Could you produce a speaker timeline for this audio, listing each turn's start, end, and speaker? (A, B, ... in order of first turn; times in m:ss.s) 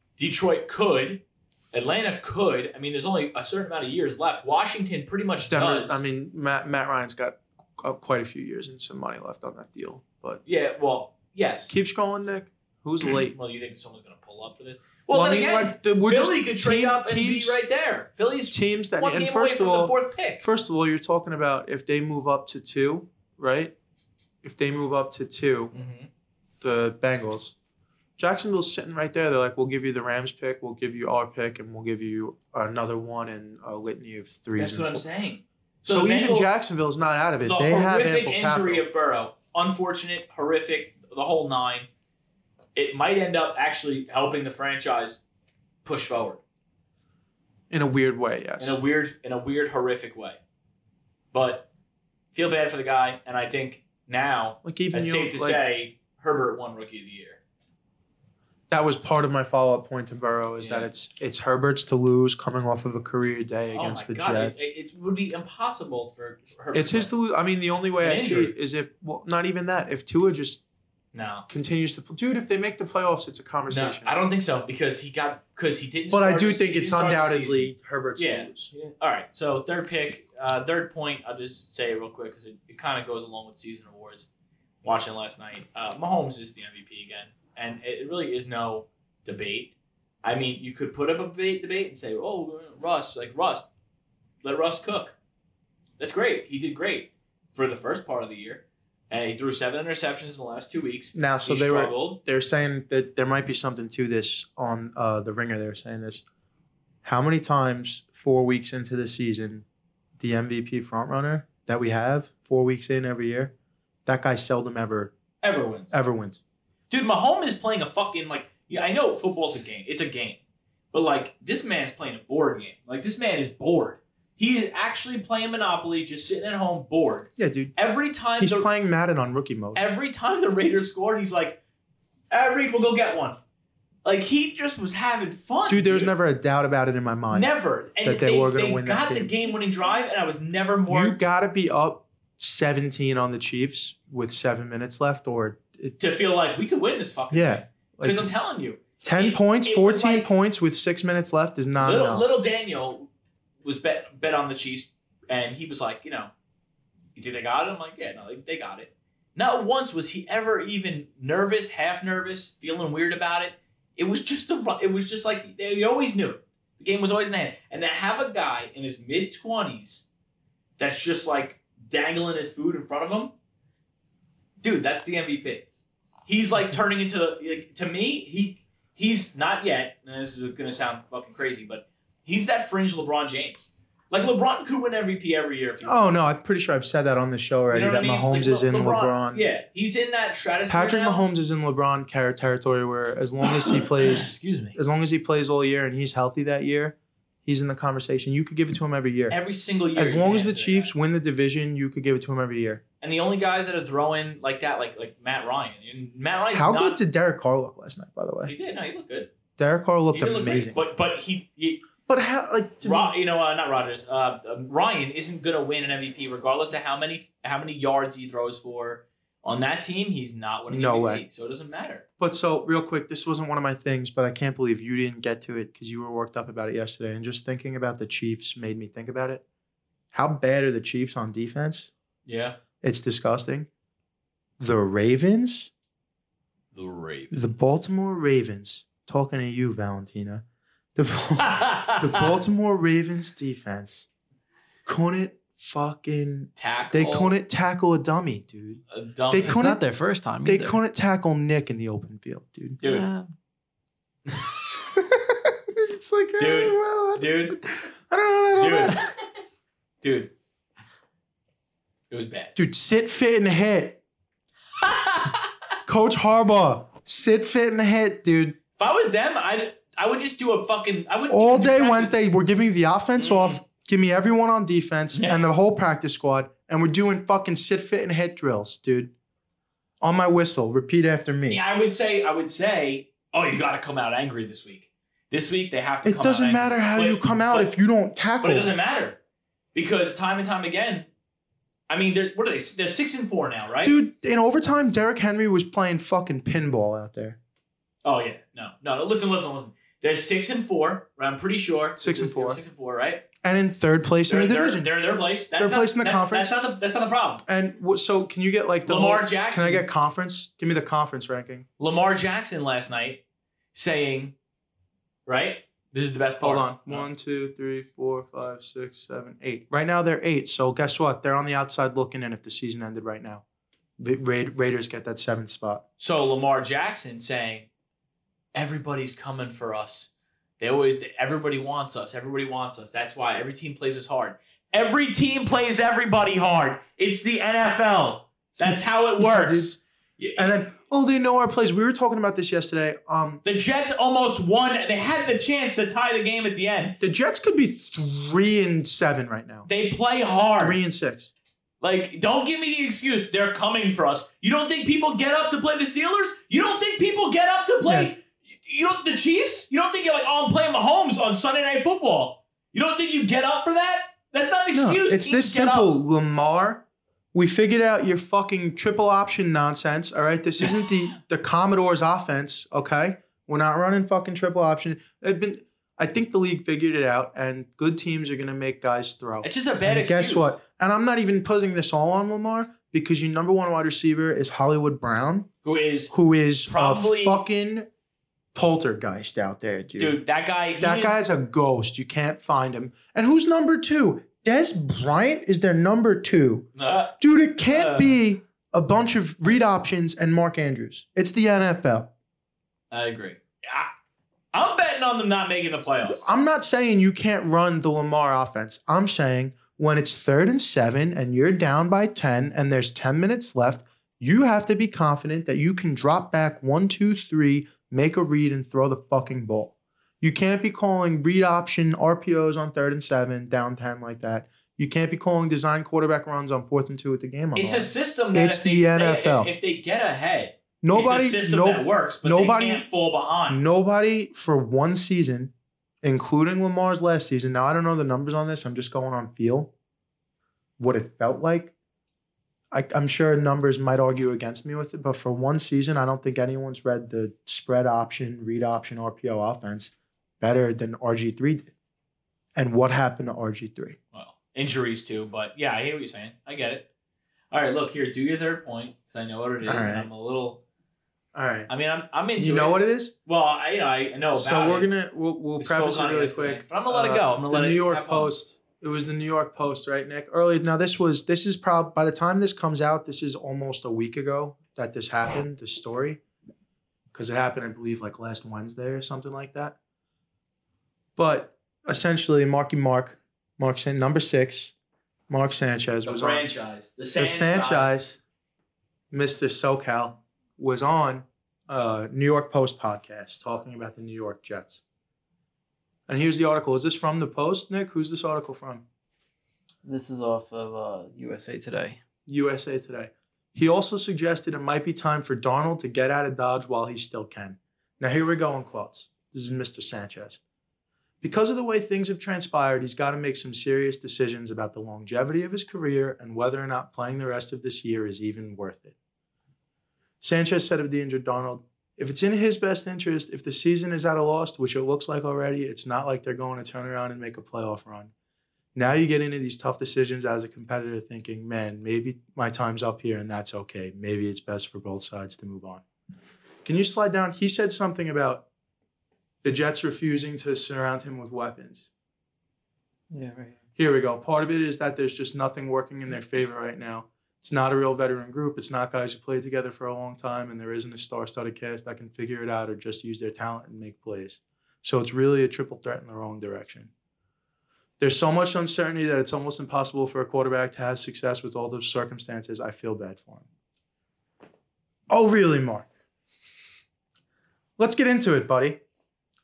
0:00.2-0:06.0 A
0:05.5-0:10.4 B
0:10.5-0:11.7 A
0:11.7-0:13.4 B
0:13.2-0:20.5 A
0:15.1-0:17.6 B
0:18.5-0:23.8 B
0:24.4-0:25.7 B
0:25.7-0:26.1 A
0:26.6-0:27.6 B
0:28.2-0:35.0 B
0:34.6-0:36.5 A
0:35.9-0:38.8 B
0:37.4-0:41.9 A
0:42.8-0:45.2 A
0:45.8-0:46.4 A
0:47.7-0:48.8 B
0:48.6-0:50.4 A
0:51.3-0:51.7 A
0:52.3-0:57.4 A
0:54.6-0:55.6 B
0:58.7-1:04.7 B
1:00.6-1:00.9 A
1:03.7-1:07.1 A
1:06.7-1:10.6 B
1:08.0-1:08.5 A
1:11.1-1:11.5 A
1:11.5-1:14.2 B
1:13.7-1:24.3 A
1:16.1-1:18.7 B
1:24.8-1:33.7 A
1:34.4-1:35.2 A
1:36.0-1:42.2 A
1:41.2-1:46.2 B
1:47.0-1:49.6 B
1:50.2-1:53.5 B
1:54.1-1:55.1 B
1:55.4-1:56.0 A
1:55.9-1:56.4 B
1:56.9-2:00.4 A
2:00.9-2:08.7 A
2:07.4-2:07.8 B
2:08.4-2:09.8 B
2:09.7-2:11.6 A
2:12.3-2:13.4 A
2:14.0-2:16.1 A
2:15.7-2:19.3 B
2:17.3-2:21.2 A
2:20.9-2:26.0 B
2:26.0-2:30.3 A
2:27.3-2:28.3 B
2:29.0-2:32.3 B
2:31.8-2:33.1 A
2:33.6-2:36.3 A
2:37.2-2:50.1 A
2:50.8-2:53.3 A
2:54.6-2:55.7 A
2:56.3-3:06.0 A
3:05.8-3:09.4 B
3:07.7-3:11.2 A
3:10.7-3:19.4 B
3:13.6-3:14.8 A
3:19.3-3:20.9 A
3:19.9-3:22.8 B
3:23.0-3:27.0 A
3:26.5-3:28.5 B
3:28.4-3:29.3 A
3:29.6-3:30.8 B
3:30.1-3:31.9 A
3:32.1-3:33.1 B
3:32.8-3:42.0 A
3:40.7-3:41.2 B
3:42.2-3:49.4 B
3:50.1-3:51.9 B
3:52.3-3:52.6 A
3:52.8-3:53.7 B
3:54.6-3:55.7 B
3:56.7-3:57.8 A
3:57.3-4:00.4 B
4:01.0-4:04.1 B
4:01.4-4:02.3 A
4:04.9-4:09.8 B
4:06.6-4:07.4 A
4:08.9-4:09.6 A
4:09.4-4:10.8 C
4:10.4-4:12.8 B
4:12.8-4:13.1 A
4:12.8-4:13.3 C
4:14.9-4:19.0 B
4:16.4-4:17.6 A
4:18.6-4:19.1 A
4:20.0-4:20.3 A
4:22.1-4:22.5 A
4:22.6-4:24.0 B
4:24.8-4:25.5 A
4:25.9-4:28.6 B
4:28.8-4:32.2 A
4:31.3-4:39.1 B
4:33.2-4:33.6 A
4:35.1-4:35.5 A
4:40.0-4:41.6 B
4:41.5-4:47.7 A
4:46.0-4:48.7 B
4:48.4-4:49.2 A
4:49.7-4:51.1 A
4:51.9-4:54.0 A
4:53.8-4:57.4 B
4:58.0-5:03.3 A
5:02.0-5:02.6 B
5:03.4-5:04.9 B
5:04.3-5:07.4 A
5:05.6-5:06.6 B
5:07.5-5:11.7 B
5:08.9-5:09.9 A
5:11.8-5:13.2 A
5:13.7-5:14.4 A
5:15.3-5:17.1 A
5:16.4-5:23.4 B
5:24.0-5:25.8 B
5:26.0-5:27.7 A
5:28.5-5:40.5 A
5:38.6-5:39.8 B
5:40.4-5:43.4 B
5:43.4-5:47.0 A
5:47.0-5:49.7 B
5:49.7-5:50.8 A
5:50.6-5:51.3 B
5:51.8-6:05.9 A
5:57.8-5:58.1 B
6:04.7-6:25.5 B
6:10.7-6:10.9 A
6:19.4-6:20.6 A
6:25.6-6:26.1 A
6:26.1-6:27.9 B
6:26.7-6:27.4 A
6:28.5-6:30.2 B
6:30.0-6:31.2 A
6:30.8-6:36.7 B
6:36.8-6:38.2 A
6:37.2-6:42.1 B
6:42.9-6:43.9 A
6:44.5-6:46.3 A
6:46.1-7:09.5 B
7:07.6-7:13.6 A
7:10.8-7:12.9 B
7:13.5-7:19.7 B
7:20.8-7:21.7 B
7:22.7-7:31.7 B
7:32.6-7:34.0 B
7:34.1-7:36.9 A
7:37.5-7:40.6 A
7:39.6-7:40.1 B
7:41.3-7:41.7 B
7:41.7-7:44.9 A
7:42.4-7:43.1 B
7:44.4-7:56.2 B
7:45.6-7:48.3 A
7:57.1-7:59.8 B
8:01.2-8:04.7 B
8:05.3-8:06.5 B
8:06.0-8:08.0 A
8:07.2-8:08.2 B
8:09.1-8:14.8 B
8:16.1-8:18.8 B
8:19.8-8:22.0 C
8:22.3-8:30.4 B
8:31.2-8:39.0 B
8:40.2-8:48.1 B
8:48.8-8:55.8 B
8:56.6-8:58.5 B
8:59.4-9:01.9 B
9:03.1-9:03.6 C
9:03.8-9:16.9 B
9:18.0-9:23.5 B
9:25.1-9:25.9 B
9:27.8-9:28.8 B